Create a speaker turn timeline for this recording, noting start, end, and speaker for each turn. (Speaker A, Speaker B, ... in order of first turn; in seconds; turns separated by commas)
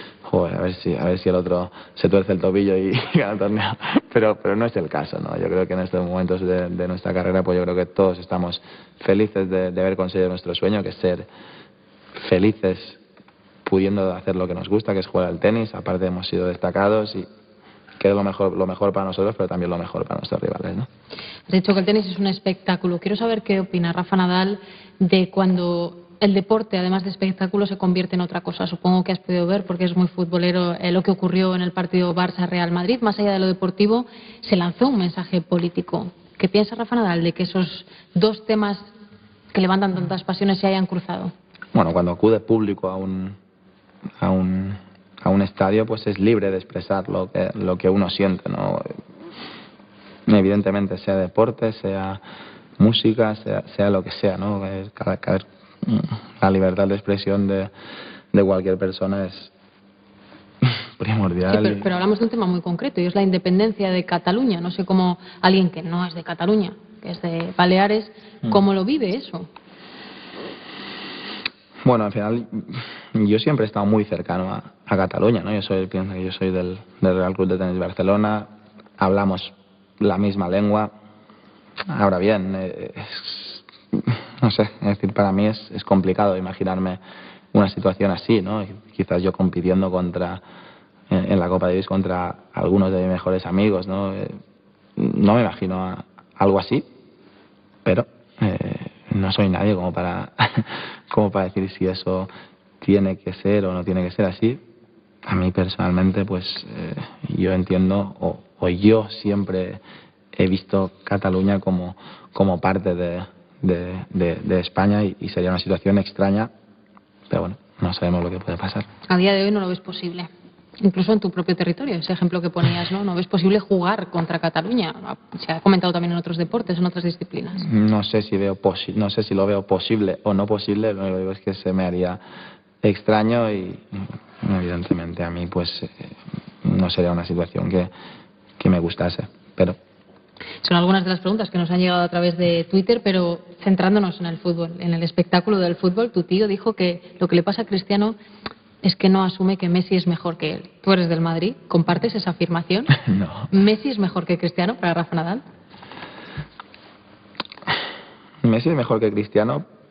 Speaker A: 0.2-11.3, Speaker A: 12.2-13.0, Speaker A: 13.6-17.3, Speaker A: 18.0-20.9, Speaker B: 21.5-38.9, Speaker B: 39.5-41.3, Speaker A: 41.7-43.4, Speaker A: 44.2-49.0, Speaker A: 50.3-52.2, Speaker A: 52.8-57.7, Speaker A: 58.3-59.5, Speaker A: 61.0-61.9, Speaker B: 61.5-69.5, Speaker A: 71.8-80.9, Speaker A: 81.9-87.0, Speaker A: 87.5-90.4, Speaker A: 91.1-94.4, Speaker A: 95.0-96.8, Speaker A: 97.8-102.3, Speaker A: 102.8-104.6, Speaker A: 105.2-109.8, Speaker A: 110.3-116.5, Speaker A: 117.3-118.9, Speaker B: 119.1-120.3, Speaker B: 120.8-127.6, Speaker A: 127.6-132.2, Speaker A: 132.8-137.9, Speaker A: 138.6-139.8, Speaker B: 140.6-148.2, Speaker B: 148.8-152.9, Speaker A: 153.0-153.5, Speaker B: 153.5-155.4, Speaker A: 158.4-159.7